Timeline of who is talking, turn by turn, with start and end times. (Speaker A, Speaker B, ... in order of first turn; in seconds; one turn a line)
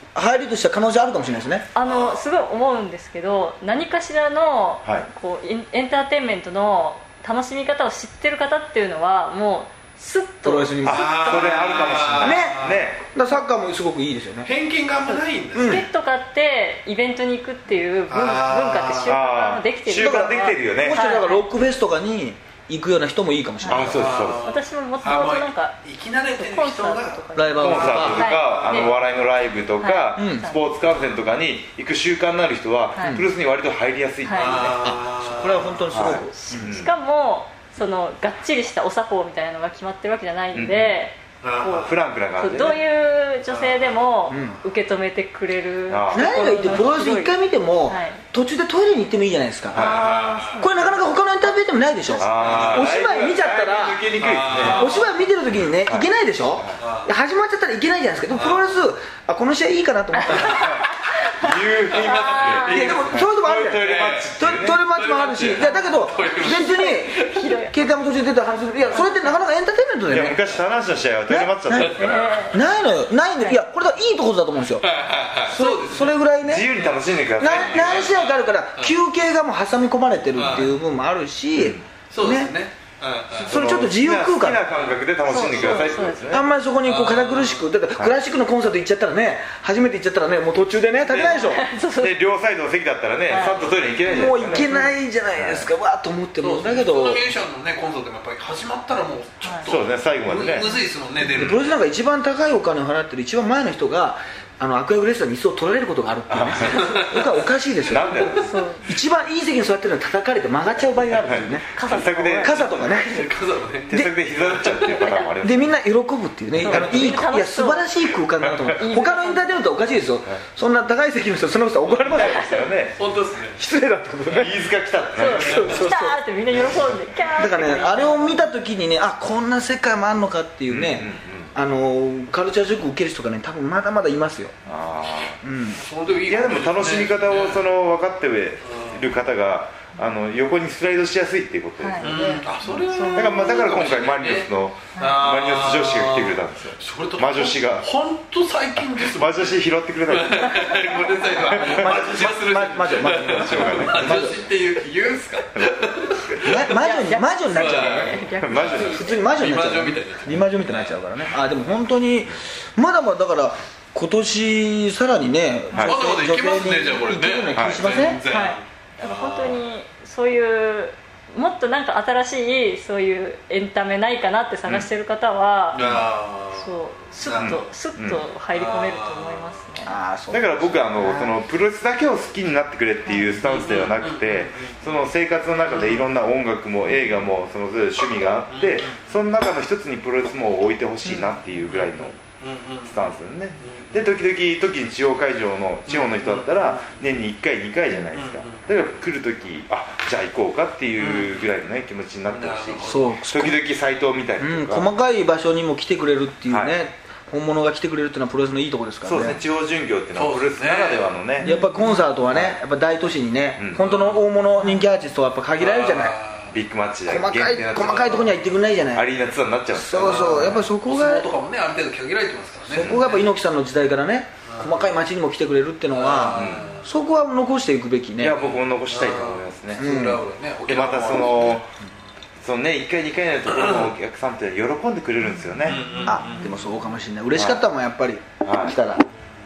Speaker A: 0.1-1.6
Speaker B: 1.7-10.8
Speaker C: 1.8-2.2
Speaker A: 10.4-11.5
Speaker C: 10.8-12.8
Speaker D: 10.8-13.0
Speaker A: 12.2-14.5
Speaker C: 14.4-15.8
Speaker B: 15.1-21.4
Speaker A: 15.5-15.8
Speaker C: 18.1-19.1
Speaker D: 19.0-21.1
Speaker A: 19.9-24.2
Speaker B: 23.6-23.9
Speaker D: 23.7-24.5
Speaker C: 23.9-29.0
Speaker B: 24.4-25.8
Speaker B: 26.3-28.9
Speaker A: 27.4-28.2
Speaker D: 27.6-34.8
Speaker B: 29.8-30.6
Speaker A: 30.1-30.5
Speaker B: 32.9-33.2
Speaker A: 33.0-33.3
Speaker B: 34.2-34.7
Speaker C: 34.3-35.9
Speaker A: 34.8-36.8
Speaker D: 35.9-36.9
Speaker B: 36.3-48.2
Speaker D: 40.5-41.0
Speaker C: 41.4-41.9
Speaker D: 41.8-42.8
Speaker C: 43.5-43.9
Speaker A: 44.3-44.6
Speaker D: 45.9-46.8
Speaker A: 46.1-50.0
Speaker D: 49.7-50.1
Speaker B: 49.7-51.0
Speaker C: 49.8-50.6
Speaker A: 50.6-60.8
Speaker D: 52.2-55.0
Speaker C: 52.4-53.0
Speaker C: 54.2-55.1
Speaker D: 55.8-56.8
Speaker C: 56.8-57.1
Speaker C: 58.3-58.6
Speaker B: 60.3-62.9
Speaker D: 60.4-60.9
Speaker D: 61.4-64.8
Speaker C: 61.9-67.5
Speaker A: 62.6-70.4
Speaker B: 65.6-67.8
Speaker B: 68.9-69.4
Speaker D: 70.1-72.4
Speaker A: 71.3-74.8
Speaker B: 71.9-72.6
Speaker C: 74.8-76.2
Speaker A: 75.5-76.7
Speaker D: 76.4-78.1
Speaker C: 76.7-79.0
Speaker A: 77.4-82.5
Speaker C: 80.3-80.8
Speaker D: 81.5-81.8
Speaker C: 82.1-83.6
Speaker A: 83.3-84.6
Speaker D: 83.4-86.5
Speaker C: 84.7-85.9
Speaker B: 85.2-86.3
Speaker A: 86.3-91.6
Speaker C: 86.8-87.7
Speaker B: 91.2-92.2
Speaker D: 92.0-94.8
Speaker B: 93.3-93.6
Speaker A: 94.0-97.2
Speaker B: 94.4-94.9
Speaker D: 95.3-95.7
Speaker C: 96.4-101.7
Speaker D: 99.6-100.7
Speaker A: 101.2-113.3
Speaker D: 106.3-107.0
Speaker C: 106.7-107.2
Speaker D: 107.8-108.5
Speaker B: 108.3-108.9
Speaker D: 111.2-112.7
Speaker B: 111.7-112.5
Speaker C: 112.8-113.9
Speaker D: 113.9-115.8
Speaker C: 114.5-114.9
Speaker A: 115.4-122.7
Speaker D: 116.6-117.2
Speaker B: 116.6-117.9
Speaker D: 118.4-118.8
Speaker B: 118.7-119.6
Speaker D: 121.9-123.0
Speaker B: 122.2-122.5
Speaker C: 123.0-123.6
Speaker A: 123.5-124.6
Speaker D: 124.3-125.8
Speaker B: 125.2-128.4
Speaker A: 125.3-126.2
Speaker A: 127.3-134.5
Speaker D: 130.7-131.5
Speaker D: 134.7-135.4
Speaker A: 135.4-135.8
Speaker C: 135.8-137.6
Speaker D: 136.2-147.8
Speaker C: 138.6-139.1
Speaker B: 141.8-143.6
Speaker C: 142.0-156.7
Speaker A: 142.0-142.4
Speaker B: 144.9-145.2
Speaker D: 148.9-150.6
Speaker B: 150.5-151.6
Speaker D: 151.5-151.9
Speaker A: 151.7-154.3
Speaker D: 153.3-154.3
Speaker A: 156.4-158.2
Speaker B: 156.7-159.2
Speaker C: 157.5-161.0
Speaker D: 158.4-159.0
Speaker A: 158.7-168.2
Speaker C: 165.8-169.6
Speaker D: 167.5-167.9
Speaker B: 168.3-175.8
Speaker C: 175.7-177.7
Speaker D: 175.8-176.0
Speaker B: 176.5-179.9
Speaker D: 177.3-178.2
Speaker C: 178.5-179.5
Speaker A: 179.8-181.3
Speaker D: 180.3-192.2
Speaker B: 183.1-183.4
Speaker C: 183.4-184.8
Speaker C: 185.7-186.0
Speaker C: 188.5-189.0
Speaker C: 191.1-194.1
Speaker D: 192.8-204.9
Speaker C: 195.9-196.9
Speaker C: 198.1-198.7
Speaker C: 201.0-201.4
Speaker C: 202.3-203.1
Speaker A: 202.8-203.6
Speaker A: 204.4-209.4
Speaker D: 206.5-206.7
Speaker D: 209.0-211.5
Speaker C: 210.1-211.1
Speaker A: 211.4-216.2
Speaker B: 211.4-212.0
Speaker D: 212.3-212.6
Speaker C: 213.8-214.2
Speaker B: 214.6-214.9
Speaker C: 215.6-216.6
Speaker D: 216.5-218.4
Speaker A: 217.1-219.1
Speaker D: 218.9-220.7
Speaker A: 219.7-221.3
Speaker C: 219.9-223.3
Speaker A: 222.7-228.3
Speaker D: 222.8-223.0
Speaker C: 224.5-224.9
Speaker C: 225.9-226.9
Speaker D: 226.3-226.7
Speaker D: 228.2-229.9
Speaker C: 228.4-231.6
Speaker A: 229.8-230.2
Speaker D: 230.7-231.7
Speaker D: 232.4-235.8
Speaker C: 233.6-233.9
Speaker C: 235.6-236.6
Speaker A: 236.0-239.1
Speaker D: 237.3-237.6
Speaker D: 238.4-238.8